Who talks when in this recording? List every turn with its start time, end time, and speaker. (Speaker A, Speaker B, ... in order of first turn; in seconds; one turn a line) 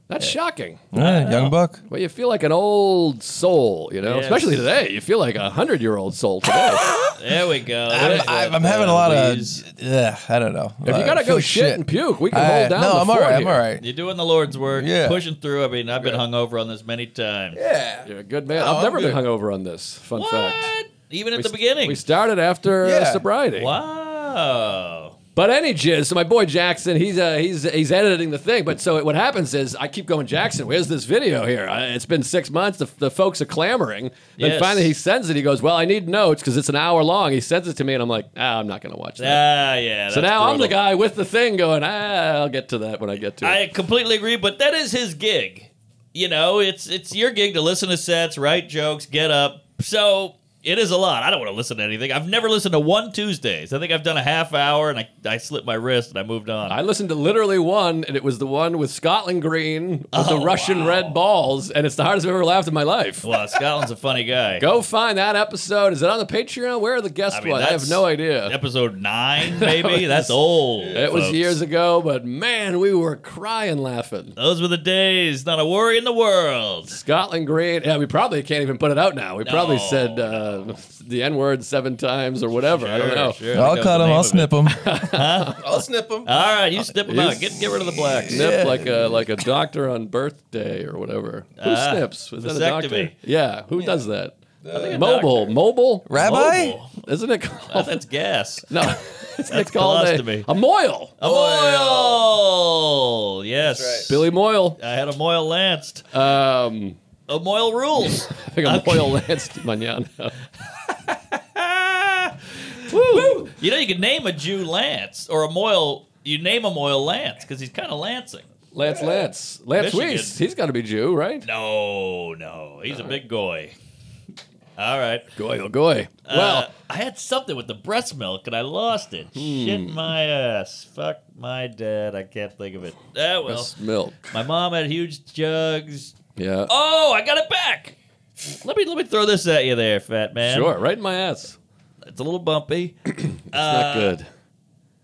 Speaker A: 0.1-0.9
Speaker B: 0.9-1.8
Speaker C: 0.9-1.5
Speaker A: 1.9-6.9
Speaker C: 4.0-4.7
Speaker B: 6.7-7.2
Speaker C: 7.0-9.6
Speaker B: 7.9-13.8
Speaker A: 8.0-8.3
Speaker A: 10.8-13.6
Speaker C: 13.8-17.6
Speaker B: 14.7-15.2
Speaker B: 17.5-19.2
Speaker A: 18.0-20.7
Speaker C: 20.1-22.0
Speaker A: 21.4-23.7
Speaker B: 22.8-23.2
Speaker C: 23.6-25.1
Speaker A: 25.4-39.4
Speaker C: 34.4-34.9
Speaker C: 39.2-40.8
Speaker A: 40.1-43.6
Speaker C: 43.4-56.8
Speaker A: 56.7-63.6
Speaker C: 60.1-61.2
Speaker C: 63.2-64.7
Speaker A: 64.6-68.5
Speaker C: 67.3-71.6
Speaker A: 69.4-70.4
Speaker A: 70.9-74.3
Speaker C: 74.4-77.0
Speaker A: 76.9-83.4
Speaker C: 79.4-80.5
Speaker C: 82.7-85.7
Speaker B: 83.5-85.0
Speaker A: 84.7-85.6
Speaker B: 85.6-86.3
Speaker C: 86.2-88.8
Speaker A: 87.0-96.1
Speaker B: 87.7-89.2
Speaker C: 91.6-93.1
Speaker B: 94.6-95.2
Speaker C: 94.7-95.5
Speaker B: 96.1-96.8
Speaker C: 96.1-97.0
Speaker A: 97.0-98.0
Speaker C: 97.7-98.9
Speaker A: 98.7-101.2
Speaker C: 99.5-100.5
Speaker C: 101.2-104.2
Speaker B: 101.2-102.2
Speaker B: 103.6-104.1
Speaker A: 104.1-104.8
Speaker C: 104.8-106.1
Speaker A: 106.1-107.0
Speaker C: 107.3-109.3
Speaker A: 108.1-110.3
Speaker C: 111.1-118.5
Speaker A: 112.9-113.5
Speaker A: 118.7-121.5
Speaker B: 118.8-119.3
Speaker C: 119.8-120.3
Speaker C: 121.4-123.8
Speaker A: 122.9-123.2
Speaker C: 124.8-125.3
Speaker A: 125.3-126.7
Speaker C: 126.3-133.7
Speaker A: 129.3-130.0
Speaker A: 133.5-134.4
Speaker C: 134.3-136.2
Speaker A: 136.4-136.7
Speaker C: 136.7-137.9
Speaker C: 138.6-140.7
Speaker A: 140.4-141.6
Speaker C: 142.1-144.2
Speaker A: 143.3-144.3